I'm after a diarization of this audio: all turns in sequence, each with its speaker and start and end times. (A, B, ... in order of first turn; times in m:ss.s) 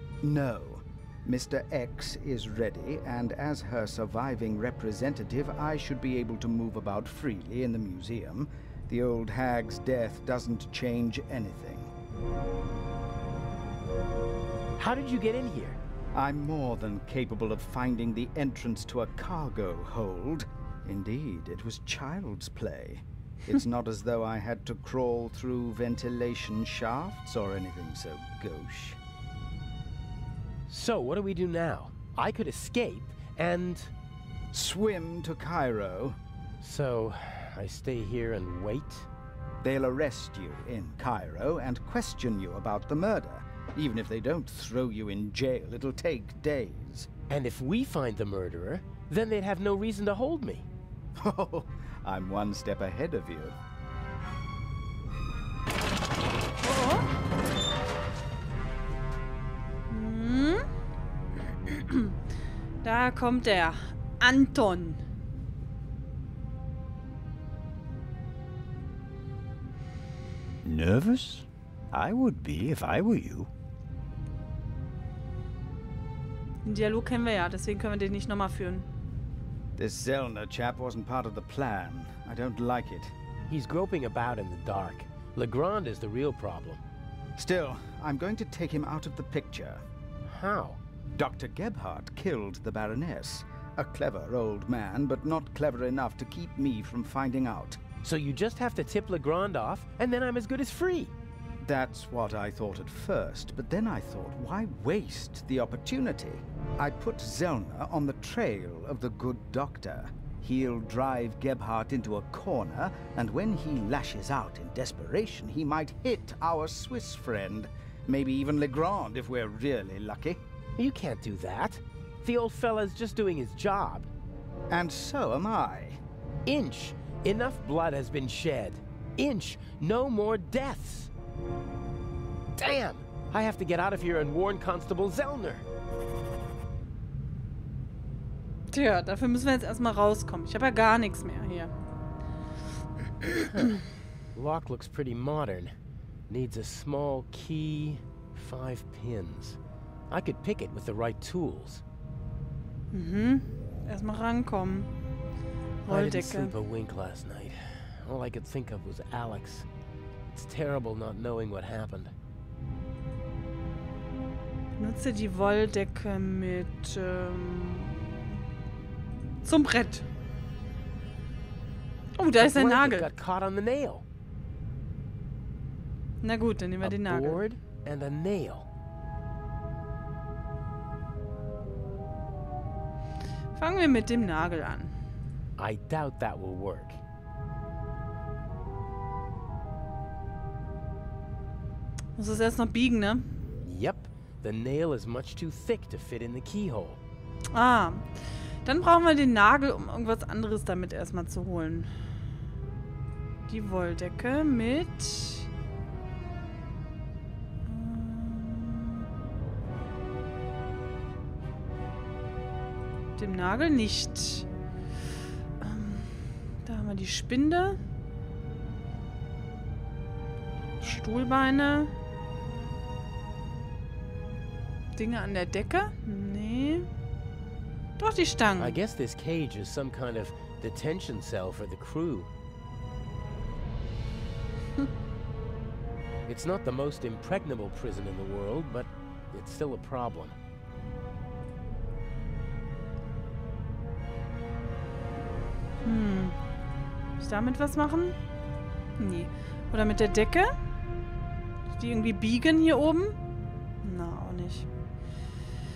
0:00.2-0:11.9 A
0:14.8-0:15.8 B
0:16.1-0:29.0 A
0:30.7-0:33.9 B
0:34.5-0:36.2 A
0:36.6-0:39.1 B
0:39.6-0:47.1 A
0:47.3-0:50.7 B
0:51.2-0:53.6 A
0:56.6-0:57.1 C
0:59.9-1:00.7 C
1:01.6-1:02.2 C
1:02.8-1:05.0 C
1:10.6-1:13.5 D
1:16.6-1:18.9 C
1:19.8-1:23.1 A
1:23.5-1:26.8 B
1:27.4-1:29.8 A
1:30.3-1:30.8 B
1:31.2-1:37.8 A
1:38.0-1:41.1 B
1:41.6-2:00.4 A
2:00.8-2:04.1 B
2:04.7-2:06.0 A
2:06.5-2:11.1 B
2:12.6-2:15.6 B
2:18.7-2:21.7 C
2:23.5-2:23.8 B
2:24.4-2:25.7 B
2:26.3-2:29.6 B
2:30.1-2:31.8 B
2:32.9-2:34.9 C
2:35.8-2:36.5 C
2:35.9-2:39.7 B
2:40.3-2:42.1 B
2:44.8-2:48.3 C
2:49.4-2:50.0 C
2:52.2-2:53.1 C
2:52.4-2:54.0 B
2:56.2-2:57.5 C
2:56.8-2:58.7 B
3:03.6-3:04.9 C
3:05.6-3:07.0 B
3:12.2-3:13.3 C
3:13.6-3:17.0 B
3:17.5-3:21.9 C
3:23.5-3:25.5 C
3:27.6-3:29.1 C
3:33.2-3:34.5 C
3:35.6-3:37.8 C
3:40.8-3:41.9 C
3:45.0-3:46.9 C
3:48.0-3:48.8 C
3:48.6-3:52.3 B
3:56.3-4:00.4 B
4:05.8-4:06.4 C
4:07.2-4:08.2 C
4:09.0-4:10.6 C
4:11.7-4:13.2 C
4:13.8-4:14.7 C